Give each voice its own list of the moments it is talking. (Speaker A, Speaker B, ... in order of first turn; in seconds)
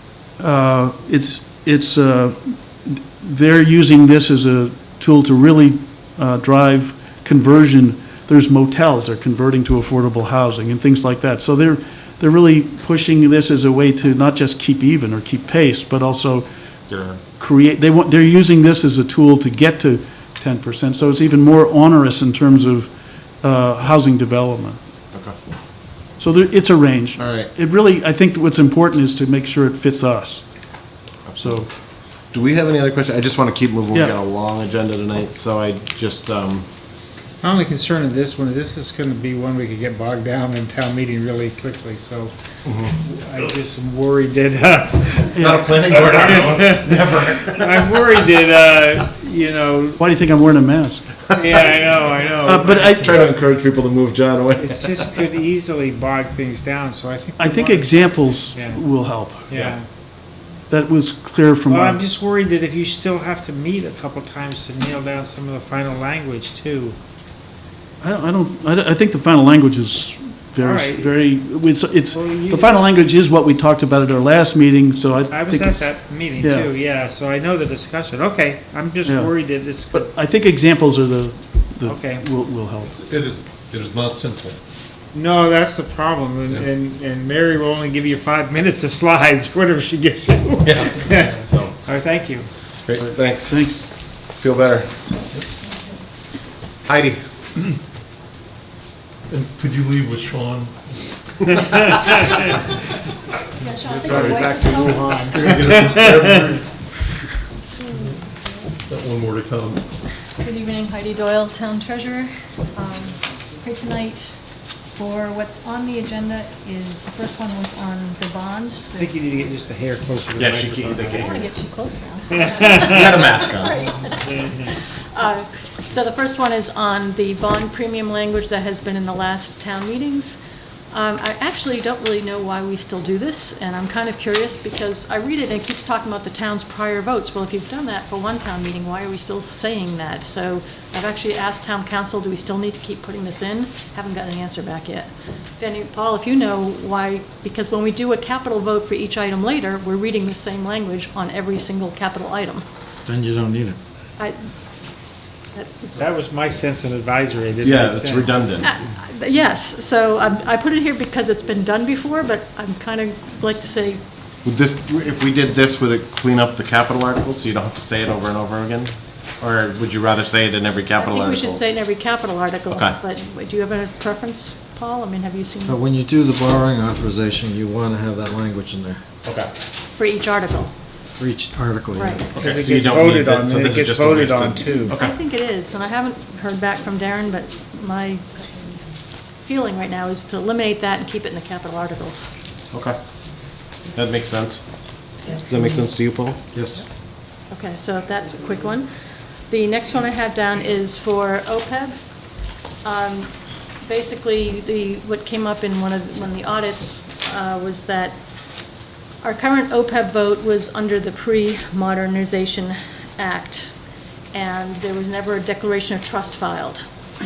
Speaker A: 0.4-16.5, 17.4-24.8, 26.2-30.4, 31.4-31.7, 45.4-45.7, 50.0-51.2, 52.4-53.2, 57.4-59.5, 60.7-62.0, 68.0-75.9, 76.4-76.7, 79.0-79.3, 79.9-83.0, 93.4-93.8
Speaker B: 16.9-17.2, 27.2-27.5, 31.2-31.6, 32.3-36.6, 42.6-42.9, 45.3-47.9, 51.3-51.7, 52.9-55.1, 90.6-91.7, 92.9-93.6, 94.3-94.9, 96.8-97.2, 120.4-121.5, 122.7-123.9, 157.6-158.7, 164.4-171.6, 172.7-173.0, 182.3-185.1, 193.9-194.6, 195.3-196.4
Speaker C: 37.4-42.3, 43.0-50.0, 51.3-53.1, 54.6-58.8, 59.5-59.8, 61.7-67.0, 70.6-71.1, 72.1-72.9, 75.3-80.1, 81.8-82.2, 85.1-92.5, 103.6-106.2, 119.0-121.2, 122.4-123.0, 124.3-124.6, 155.9-158.4, 182.3-184.9
Speaker D: 83.0-84.6, 99.3-100.8, 104.1-104.4, 105.3-106.6, 108.9-109.8
Speaker E: 103.6-105.5, 110.4-114.4, 114.9-119.2, 121.0-130.4, 130.9-152.6, 154.2-154.5, 155.5-156.0, 158.6-164.0, 171.0-175.8, 179.9-180.7, 181.9-182.3, 184.9-188.6, 189.4-192.3, 197.5-198.9, 199.5-202.0, 202.8-203.3, 203.8-208.2, 209.2-213.8, 214.3-216.9
Speaker F: 153.1-153.8, 175.6-179.0, 181.2-182.2, 196.5-196.8